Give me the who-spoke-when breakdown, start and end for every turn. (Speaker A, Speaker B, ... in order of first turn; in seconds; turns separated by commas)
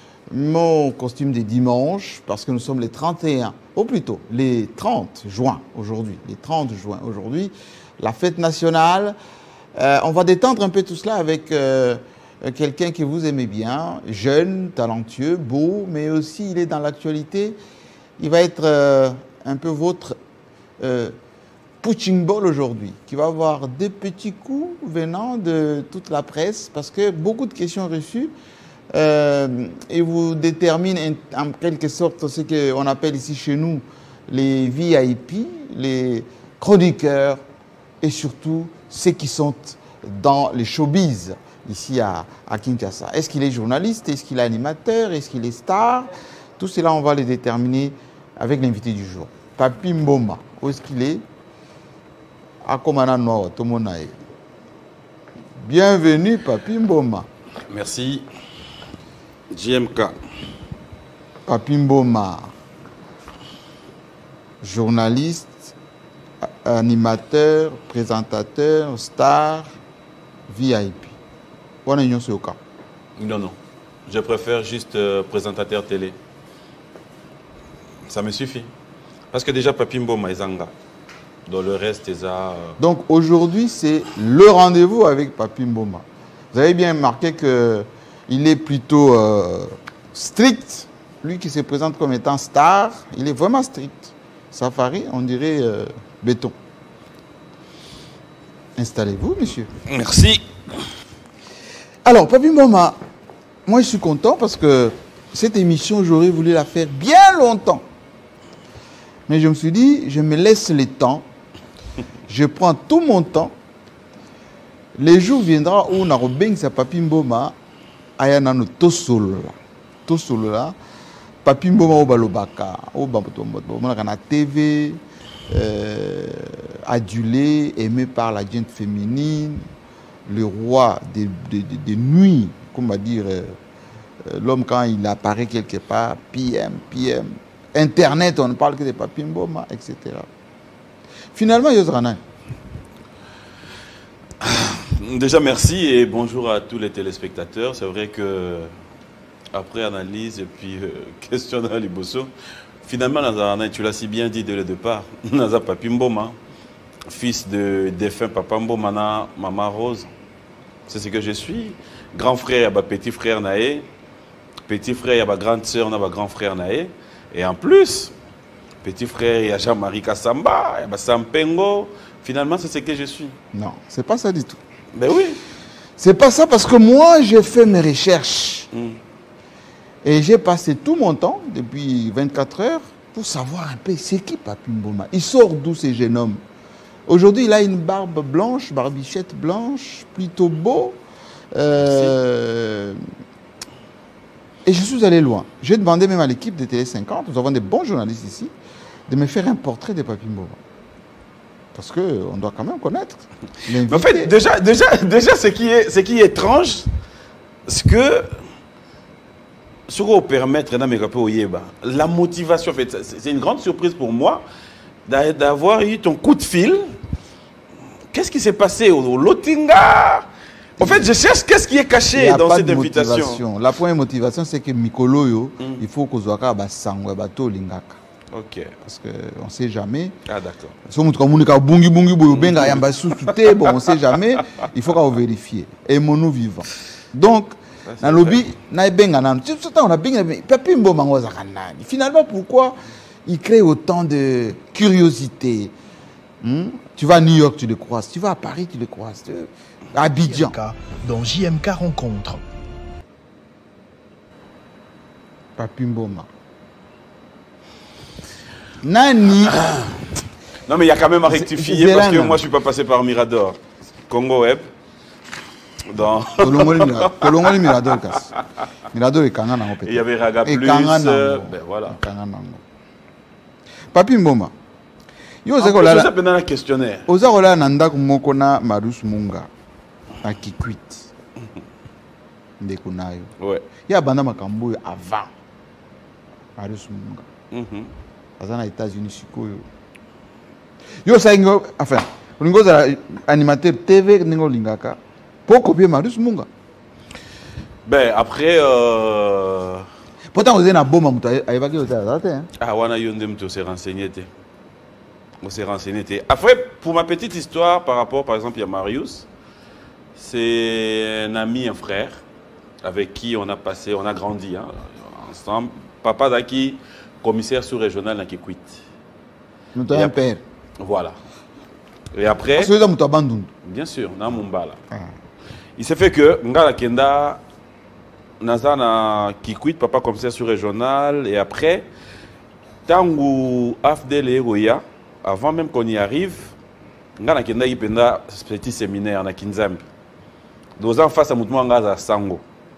Speaker A: 0.3-9.2, Speaker A: 9.8-17.6, Speaker A: 18.2-20.2, Speaker A: 20.8-21.2, Speaker A: 21.8-28.3, Speaker A: 28.9-37.4, Speaker A: 38.0-51.2, Speaker A: 52.6-54.1, Speaker A: 55.6-57.3, Speaker B: 57.7-58.3, Speaker B: 59.5-60.2, Speaker A: 61.5-62.5, Speaker A: 64.6-65.8, Speaker A: 66.4-69.8, Speaker A: 70.5-71.2, Speaker A: 71.8-72.6, Speaker B: 73.2-73.6, Speaker B: 74.1-76.2, Speaker B: 78.1-78.7, Speaker B: 79.3-80.7, Speaker B: 81.5-82.8, Speaker A: 82.8-96.5, Speaker A: 98.8-99.7, Speaker B: 99.9-100.5, Speaker A: 102.0-103.0, Speaker A: 103.7-107.8, Speaker A: 109.3-111.3, Speaker A: 112.3-113.6, Speaker A: 115.0-117.5, Speaker A: 118.2-119.5, Speaker A: 120.1-120.8, Speaker A: 121.4-129.7, Speaker A: 130.3-133.6, Speaker A: 134.2-140.3, Speaker A: 141.3-142.2, Speaker B: 144.4-148.7, Speaker B: 149.5-152.3, Speaker B: 152.8-156.4, Speaker B: 157.1-160.1, Speaker B: 160.9-163.9, Speaker B: 164.7-168.1, Speaker B: 168.8-173.4, Speaker A: 173.5-174.6, Speaker B: 174.9-175.4, Speaker A: 176.0-178.7, Speaker B: 178.7-179.0, Speaker A: 180.0-186.4, Speaker A: 187.1-191.0, Speaker A: 191.5-193.0, Speaker B: 191.8-192.1, Speaker A: 194.7-198.5, Speaker A: 199.1-200.6, Speaker A: 201.7-204.3, Speaker B: 203.9-206.9, Speaker B: 207.7-208.4, Speaker B: 209.9-214.4, Speaker B: 215.1-216.9, Speaker B: 218.1-220.3, Speaker A: 220.8-221.1, Speaker B: 220.8-223.4, Speaker A: 222.1-228.0, Speaker B: 228.3-228.8, Speaker A: 228.8-230.2, Speaker B: 230.3-230.8, Speaker A: 230.9-245.7, Speaker B: 232.3-233.8, Speaker B: 237.8-238.4, Speaker A: 246.4-250.6, Speaker C: 250.3-252.4, Speaker A: 255.6-256.3, Speaker A: 258.8-259.6, Speaker B: 259.6-259.9, Speaker B: 260.7-264.7, Speaker A: 261.3-262.4, Speaker B: 265.9-267.7, Speaker A: 266.4-268.3, Speaker A: 268.9-272.6, Speaker B: 269.9-272.0, Speaker A: 273.9-274.5, Speaker A: 275.4-276.1, Speaker B: 275.6-277.1, Speaker A: 277.1-279.5, Speaker A: 280.2-281.1, Speaker A: 282.6-283.3, Speaker B: 283.4-283.7, Speaker A: 283.9-285.3, Speaker A: 286.6-287.3, Speaker B: 287.5-287.9, Speaker A: 288.4-289.7, Speaker A: 291.0-296.5, Speaker B: 297.9-299.9, Speaker A: 300.3-302.5, Speaker B: 302.6-304.3, Speaker B: 305.4-309.3, Speaker B: 310.2-312.2, Speaker B: 312.8-318.8, Speaker A: 319.8-320.4, Speaker B: 320.8-321.2, Speaker B: 322.1-322.7, Speaker A: 322.6-323.5, Speaker B: 323.6-324.8, Speaker B: 325.8-327.4, Speaker B: 328.4-331.9, Speaker B: 332.9-336.6, Speaker B: 337.2-339.8, Speaker B: 340.8-342.4